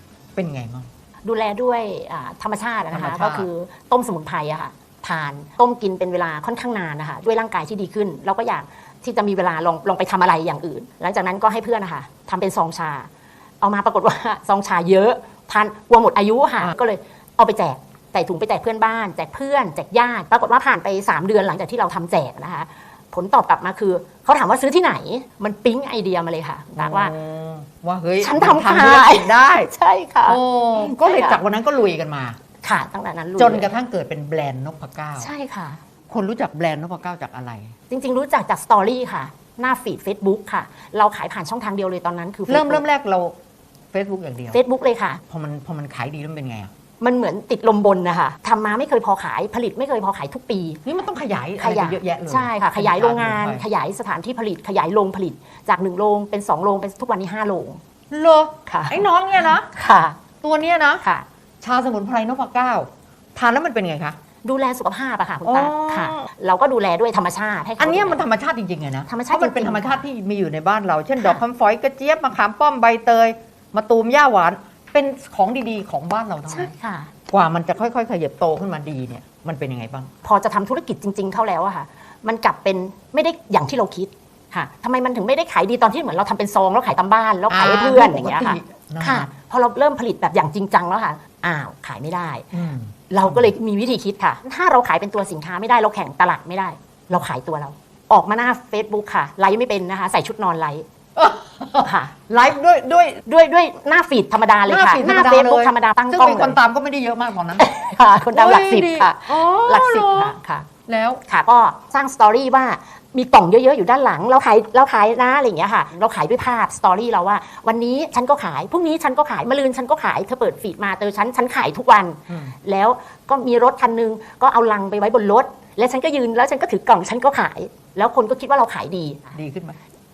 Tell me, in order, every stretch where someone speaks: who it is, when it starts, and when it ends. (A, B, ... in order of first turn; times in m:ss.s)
0:00.4-0:00.9 A
0:01.2-0:13.1 B
0:02.9-0:03.5 A
0:13.6-0:27.2 B
0:26.8-0:29.7 A
0:28.2-0:31.4 B
0:30.3-0:32.4 A
0:32.6-0:33.7 B
0:33.4-0:35.3 A
0:35.2-0:35.8 B
0:36.1-0:37.7 A
0:37.9-0:42.8 B
0:42.5-0:43.4 A
0:43.9-0:44.6 A
0:44.5-0:45.2 B
0:45.3-0:46.7 A
0:47.0-0:50.8 B
0:50.8-0:53.6 A
0:51.6-0:57.8 B
0:58.1-0:59.7 A
0:58.7-1:00.2 B
1:00.4-1:01.1 A
1:01.6-1:04.2 A
1:04.4-1:08.2 B
1:05.4-1:06.3 A
1:07.8-1:16.7 A
1:09.1-1:10.0 B
1:16.5-1:17.1 B
1:17.3-1:20.1 A
1:20.2-1:32.5 B
1:27.5-1:29.3 A
1:32.5-1:33.5 A
1:33.1-1:40.9 B
1:41.2-1:43.2 A
1:41.8-1:42.1 B
1:43.3-1:46.6 B
1:44.7-1:47.7 A
1:47.6-1:50.7 B
1:48.3-1:50.3 A
1:50.9-1:51.2 A
1:51.3-2:09.4 B
2:02.3-2:02.6 A
2:09.3-2:09.8 A